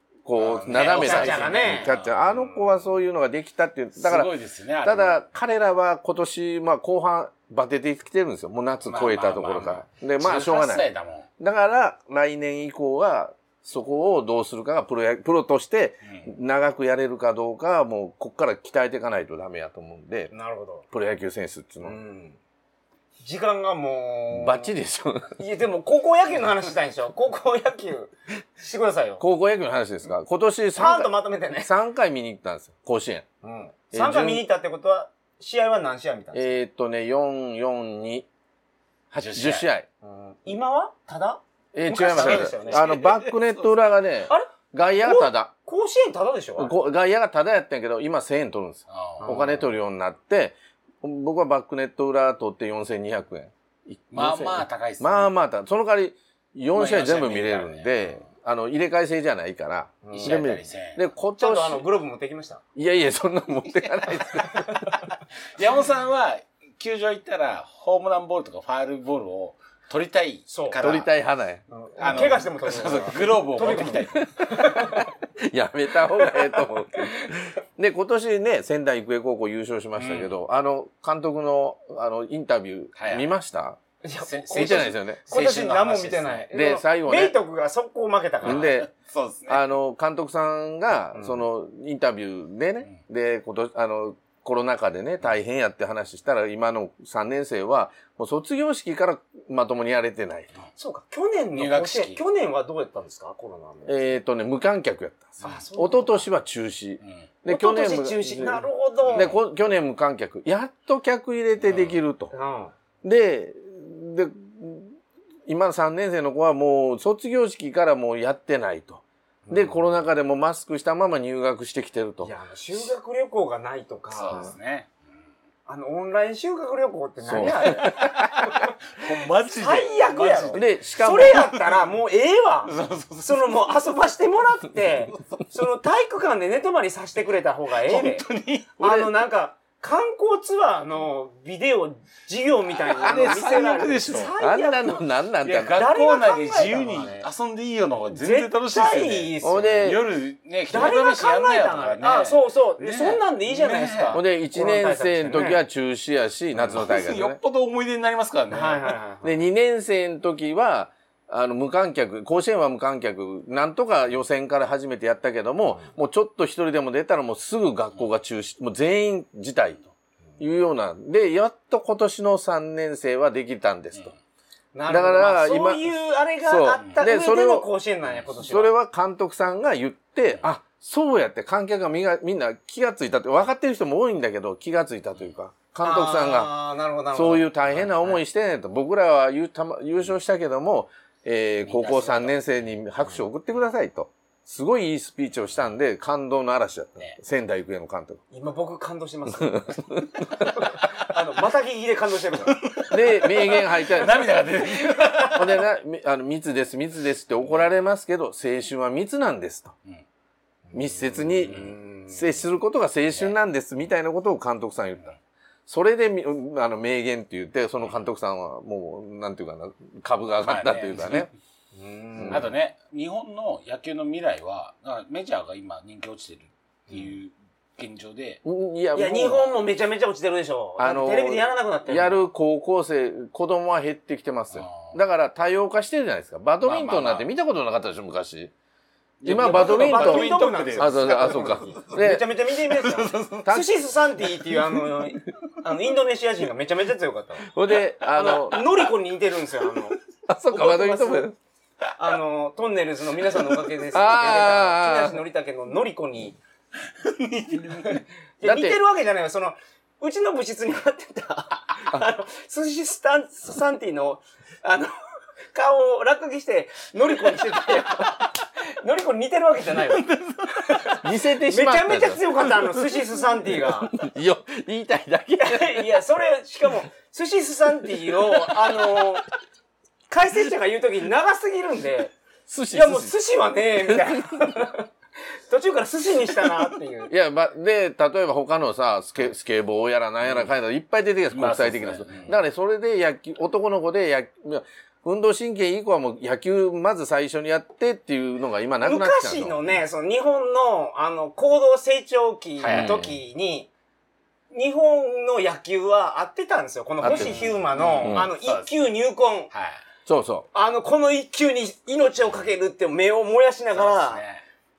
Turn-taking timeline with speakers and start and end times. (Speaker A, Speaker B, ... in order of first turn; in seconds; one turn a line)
Speaker A: 0.2-4.3
Speaker B: 0.3-2.1
Speaker C: 0.7-2.8
Speaker B: 4.0-5.2
Speaker A: 4.8-10.8
Speaker B: 8.8-11.3
Speaker A: 11.4-20.3
Speaker C: 20.3-20.9
Speaker A: 20.9-22.0
Speaker C: 21.8-22.4
Speaker C: 23.2-24.7
Speaker A: 24.3-25.4
Speaker C: 25.4-29.2
Speaker A: 29.2-31.1
Speaker C: 30.8-31.7
Speaker A: 31.6-33.3
Speaker C: 33.4-36.6
Speaker A: 33.9-34.4
Speaker A: 36.3-38.3
Speaker A: 39.1-39.9
Speaker B: 39.2-39.7
Speaker C: 40.0-42.8
Speaker A: 41.7-45.5
Speaker B: 42.1-43.5
Speaker C: 45.0-46.7
Speaker A: 46.6-61.9
Speaker B: 48.9-49.4
Speaker C: 49.2-49.7
Speaker B: 54.1-55.3
Speaker B: 56.7-58.1
Speaker C: 60.0-60.4
Speaker B: 60.1-61.0
Speaker C: 61.4-62.6
Speaker A: 62.8-65.0
Speaker C: 64.5-65.0
Speaker B: 65.6-71.1
Speaker C: 70.5-70.8
Speaker A: 70.8-72.3
Speaker C: 71.7-75.1
Speaker B: 72.0-74.3
Speaker A: 74.2-83.8
Speaker B: 80.0-80.3
Speaker B: 83.0-83.3
Speaker C: 84.0-88.7
Speaker B: 84.2-86.4
Speaker A: 84.5-85.2
Speaker A: 86.5-87.4
Speaker A: 88.4-88.9
Speaker B: 88.4-89.6
Speaker A: 89.5-100.5
Speaker C: 91.2-91.4
Speaker C: 100.8-104.1
Speaker B: 101.6-102.2
Speaker A: 103.9-112.3
Speaker C: 105.4-106.3
Speaker C: 107.5-109.3
Speaker B: 109.0-109.4
Speaker B: 111.6-112.0
Speaker C: 112.3-112.7
Speaker A: 113.0-115.0
Speaker A: 115.5-122.3
Speaker C: 119.5-119.8
Speaker C: 122.2-124.5
Speaker B: 124.1-124.9
Speaker C: 125.7-128.7
Speaker A: 127.2-128.7
Speaker B: 128.4-130.7
Speaker C: 129.5-138.3
Speaker A: 130.5-131.5
Speaker B: 132.7-133.8
Speaker B: 137.8-138.7
Speaker C: 138.8-145.0
Speaker A: 138.8-139.1
Speaker B: 142.9-144.3
Speaker A: 143.1-143.6
Speaker A: 144.4-145.8
Speaker B: 145.4-154.2
Speaker C: 145.7-147.3
Speaker C: 148.1-149.9
Speaker A: 149.4-150.0
Speaker C: 150.7-155.6
Speaker A: 154.1-157.4
Speaker C: 156.6-156.8
Speaker B: 156.7-159.0
Speaker C: 158.5-159.4
Speaker A: 159.2-169.8
Speaker A: 170.4-174.1
Speaker C: 174.8-178.7
Speaker A: 174.9-175.9
Speaker A: 176.4-177.7
Speaker A: 178.4-186.5
Speaker C: 185.8-188.2
Speaker A: 187.1-198.2
Speaker B: 191.7-192.3
Speaker C: 198.3-202.6
Speaker A: 199.4-200.5
Speaker B: 202.5-205.4
Speaker A: 202.9-204.3
Speaker C: 204.8-205.4
Speaker A: 205.3-209.7
Speaker C: 210.7-212.4
Speaker A: 210.7-215.1
Speaker B: 211.5-211.8
Speaker A: 215.7-221.3
Speaker B: 220.4-221.3
Speaker C: 221.8-222.5
Speaker A: 222.2-222.5
Speaker B: 222.3-228.4
Speaker A: 228.4-229.5
Speaker C: 228.9-232.2
Speaker A: 230.8-238.5
Speaker B: 234.5-234.9
Speaker B: 236.6-237.3
Speaker B: 239.2-241.6
Speaker A: 239.2-242.3
Speaker C: 239.3-247.5
Speaker B: 242.6-243.5
Speaker A: 247.4-248.7
Speaker C: 248.1-250.0
Speaker A: 250.3-251.4
Speaker C: 250.5-251.3
Speaker C: 251.9-256.4
Speaker A: 253.9-255.2
Speaker B: 256.9-258.0
Speaker C: 257.7-264.9
Speaker A: 258.4-258.8
Speaker C: 265.5-274.0
Speaker B: 269.9-270.7
Speaker A: 270.9-276.0
Speaker C: 275.4-279.3
Speaker C: 280.1-282.1
Speaker A: 282.5-283.1
Speaker C: 282.7-284.9
Speaker A: 283.8-284.7
Speaker C: 285.5-287.1
Speaker A: 287.1-299.6
Speaker B: 291.3-292.4
Speaker C: 298.8-303.7
Speaker B: 302.6-303.0
Speaker A: 302.7-303.1
Speaker C: 304.5-309.5
Speaker A: 307.0-307.4
Speaker B: 307.1-308.7
Speaker A: 308.0-308.3
Speaker B: 309.5-309.8
Speaker A: 310.1-310.5
Speaker C: 310.5-314.2
Speaker B: 313.7-314.4